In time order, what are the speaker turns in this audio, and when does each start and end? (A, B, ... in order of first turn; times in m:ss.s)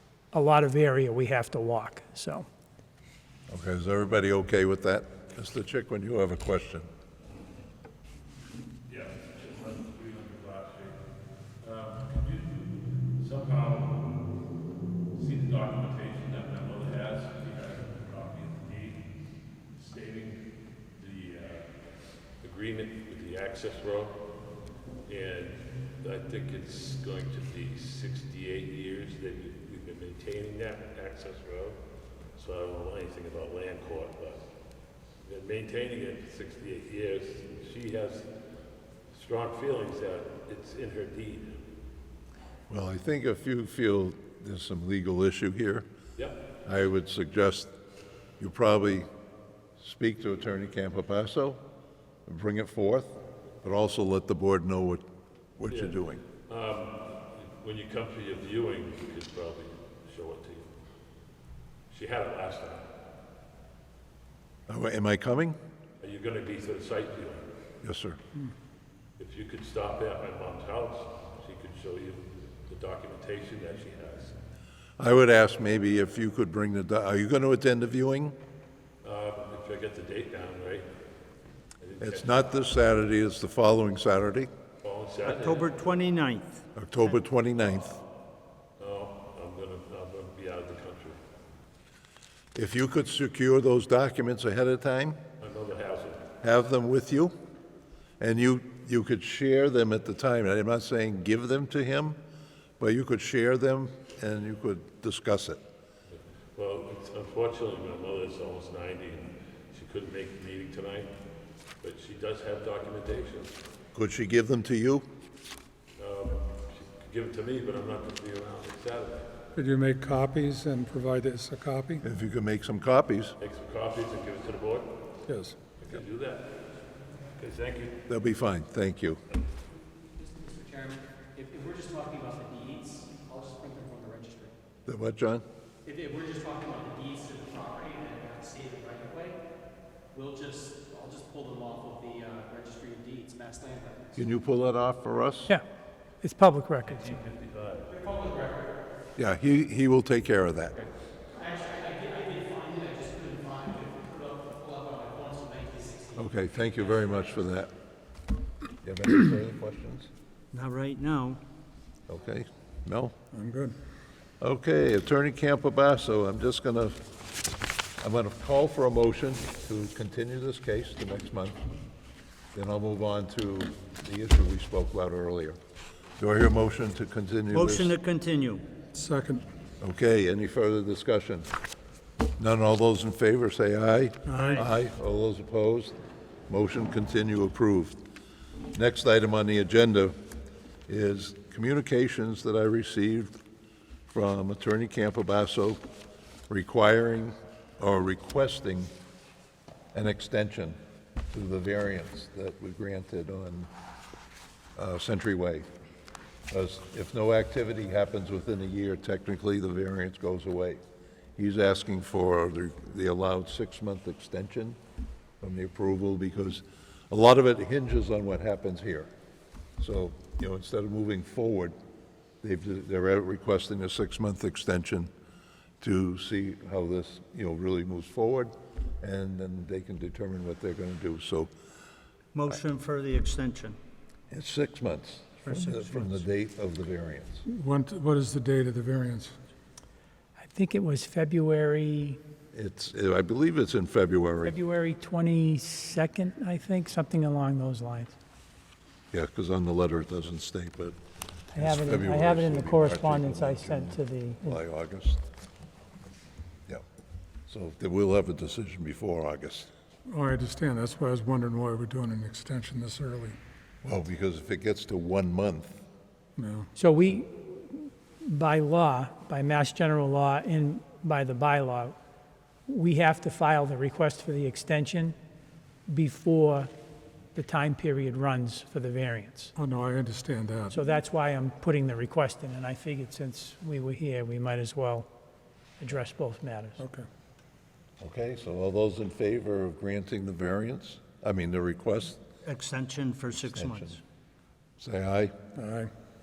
0:00.3-0:02.5 A
0:03.5-0:06.9 B
0:08.9-0:11.0 C
0:11.6-0:12.7 C
0:13.2-0:14.0 C
0:15.1-0:19.1 C
0:19.7-0:20.4 C
0:21.0-0:21.7 C
0:22.4-0:24.2 C
0:25.1-0:31.8 C
0:32.4-0:34.4 C
0:35.2-0:38.3 C
0:39.1-0:41.6 C
0:42.7-0:45.9 B
0:46.2-0:46.4 C
0:46.6-0:47.7 B
0:48.4-0:49.1 B
0:49.8-0:51.6 B
0:52.3-0:55.0 B
0:55.6-0:56.2 B
0:55.7-1:00.7 C
1:01.9-1:02.8 C
1:04.7-1:05.6 B
1:06.0-1:07.5 C
1:07.8-1:08.2 B
1:09.2-1:14.4 C
1:15.0-1:18.4 B
1:19.0-1:20.9 C
1:21.8-1:22.6 C
1:22.0-1:24.5 B
1:24.8-1:25.7 C
1:25.2-1:26.6 D
1:26.8-1:28.0 B
1:28.8-1:31.2 C
1:32.5-1:35.2 B
1:35.4-1:36.2 C
1:36.4-1:37.3 B
1:38.2-1:42.2 B
1:42.8-1:45.6 B
1:46.1-1:51.1 C
1:51.8-1:53.6 C
1:53.9-1:55.1 B
1:56.0-1:59.3 C
1:59.6-2:02.0 E
2:02.0-2:03.4 B
2:03.4-2:04.9 C
2:05.3-2:05.6 E
2:05.8-2:06.5 C
2:07.4-2:08.0 C
2:08.1-2:09.2 B
2:10.2-2:14.6 F
2:14.9-2:15.4 B
2:15.8-2:19.4 F
2:20.1-2:24.2 F
2:24.2-2:25.5 B
2:26.2-2:27.1 A
2:26.8-2:28.4 C
2:28.0-2:28.8 F
2:29.2-2:30.8 B
2:31.3-2:36.8 F
2:36.2-2:37.7 B
2:38.8-2:40.1 B
2:40.5-2:41.4 D
2:42.1-2:43.1 B
2:43.3-2:43.8 E
2:44.4-2:47.0 B
2:48.0-2:51.6 B
2:52.5-2:55.6 B
2:56.2-2:57.9 B
2:57.5-2:58.6 D
2:58.9-2:59.4 E
2:59.8-3:01.5 B
3:02.4-3:06.0 B
3:06.5-3:08.0 B
3:08.7-3:10.2 B
3:10.9-3:13.4 B
3:14.1-3:15.8 B
3:16.5-3:18.9 B
3:19.9-3:20.8 B
3:21.3-3:23.7 B
3:24.8-3:25.7 B
3:26.5-3:30.8 B
3:31.4-3:34.8 B
3:35.4-3:39.1 B
3:39.8-3:41.8 B
3:42.4-3:45.1 B
3:45.8-3:51.5 B
3:52.3-3:53.8 D
3:54.3-3:57.4 B
3:55.5-3:56.1 D
3:57.5-3:59.4 E
4:00.4-4:02.2 A
4:02.5-4:04.6 B
4:04.4-4:08.2 A
4:09.1-4:11.0 B
4:11.5-4:14.6 A
4:11.6-4:15.2 B
4:17.5-4:19.7 B
4:20.1-4:23.4 E
4:23.8-4:25.8 B
4:26.4-4:26.7 E
4:26.8-4:32.0 A
4:32.7-4:35.2 A
4:35.9-4:36.7 A
4:37.4-4:39.5 A
4:39.6-4:40.8 E
4:40.7-4:45.1 A
4:45.8-4:46.8 A
4:46.8-4:47.1 E
4:48.0-4:52.2 B
4:52.4-4:53.9 D
4:53.5-4:54.0 B
4:54.8-4:55.3 B
4:55.6-4:55.9 E